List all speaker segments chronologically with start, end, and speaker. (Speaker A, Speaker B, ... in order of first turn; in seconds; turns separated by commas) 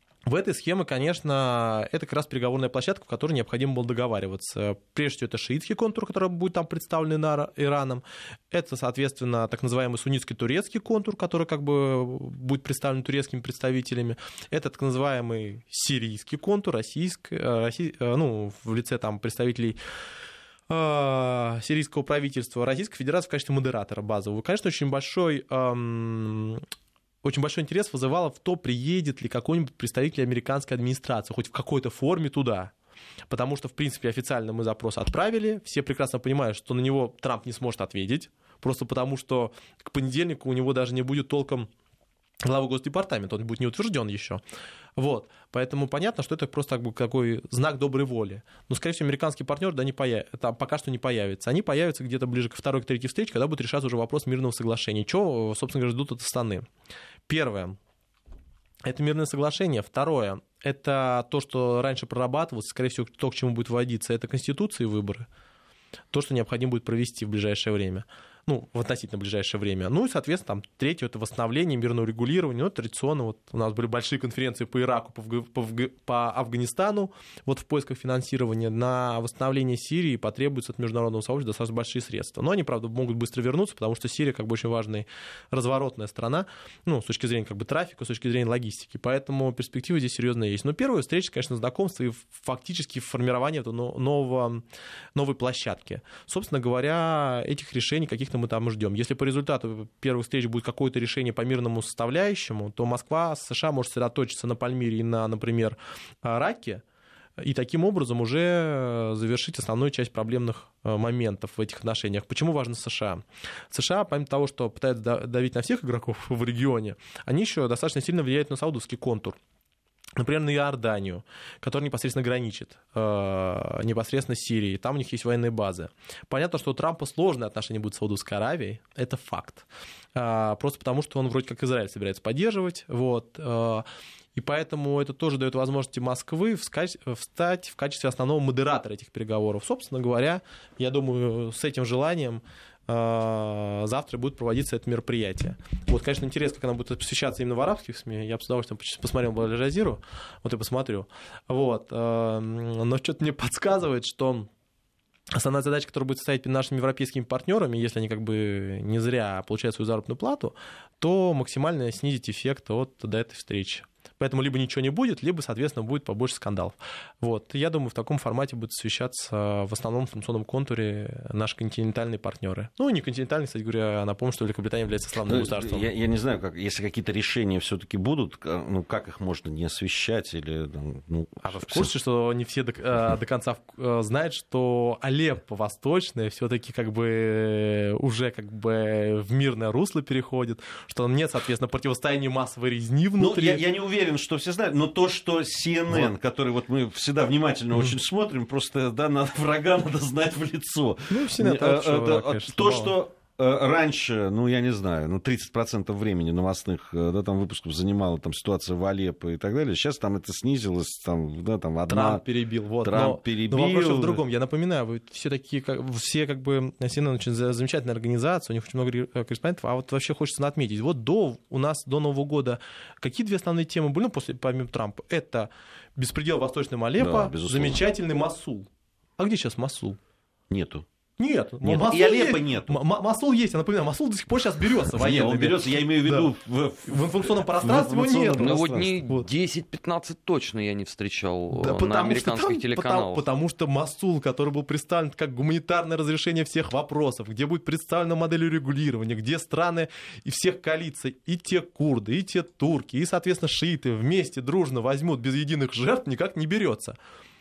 Speaker A: 0.2-19.8, Speaker A: 20.7-26.6, Speaker A: 27.2-32.7, Speaker A: 33.3-41.7, Speaker A: 42.4-44.4, Speaker A: 45.0-56.7, Speaker A: 57.3-57.8, Speaker A: 58.8-65.3, Speaker A: 66.1-106.8, Speaker A: 107.4-119.4, Speaker A: 120.2-154.5, Speaker A: 155.3-175.9, Speaker B: 175.2-181.9, Speaker A: 181.4-193.6, Speaker B: 193.2-212.2, Speaker A: 201.1-202.9, Speaker A: 211.9-230.0, Speaker B: 212.8-214.2, Speaker B: 227.0-227.8, Speaker B: 230.5-230.8, Speaker A: 231.2-236.3, Speaker B: 231.6-232.8, Speaker B: 234.9-239.0, Speaker A: 236.8-239.3, Speaker C: 238.4-243.2, Speaker A: 241.5-257.0